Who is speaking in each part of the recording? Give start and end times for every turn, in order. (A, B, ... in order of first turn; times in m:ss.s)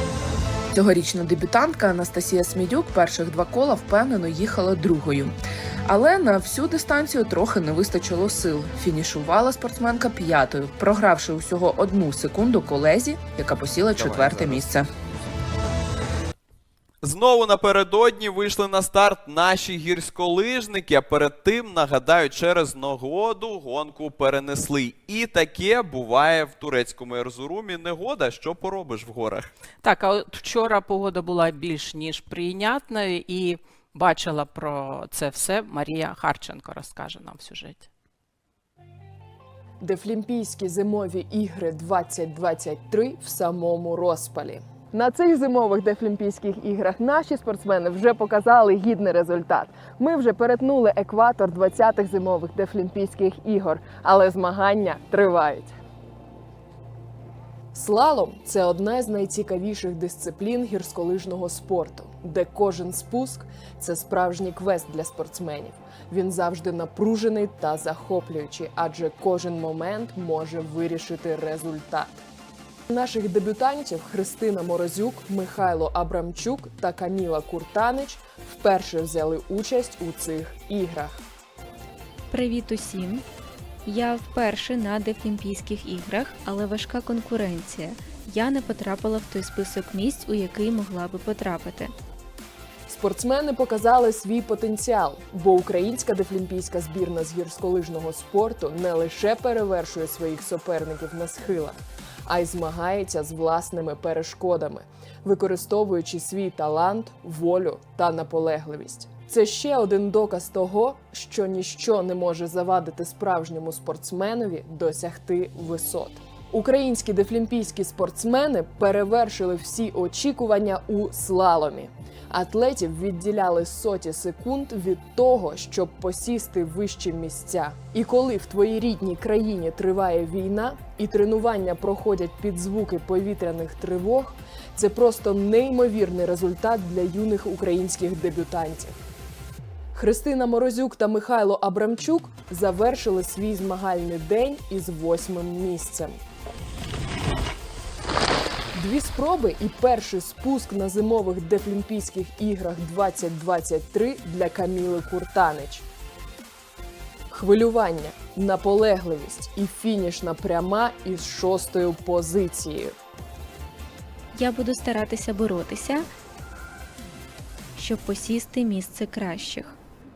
0:00.7-0:14.9 A
0:14.0-0:15.3 B
0:17.0-0:29.5 B
0:29.8-0:37.9 C
0:39.8-0:55.7 D
0:57.7-1:12.2 D
1:12.9-1:21.2 D
1:22.3-1:23.2 E
1:23.9-1:32.0 E
1:32.9-2:19.0 D
2:20.0-2:26.2 D
2:28.7-2:35.9 D
2:37.3-2:43.0 D
2:44.4-2:46.1 E
2:47.8-2:49.8 E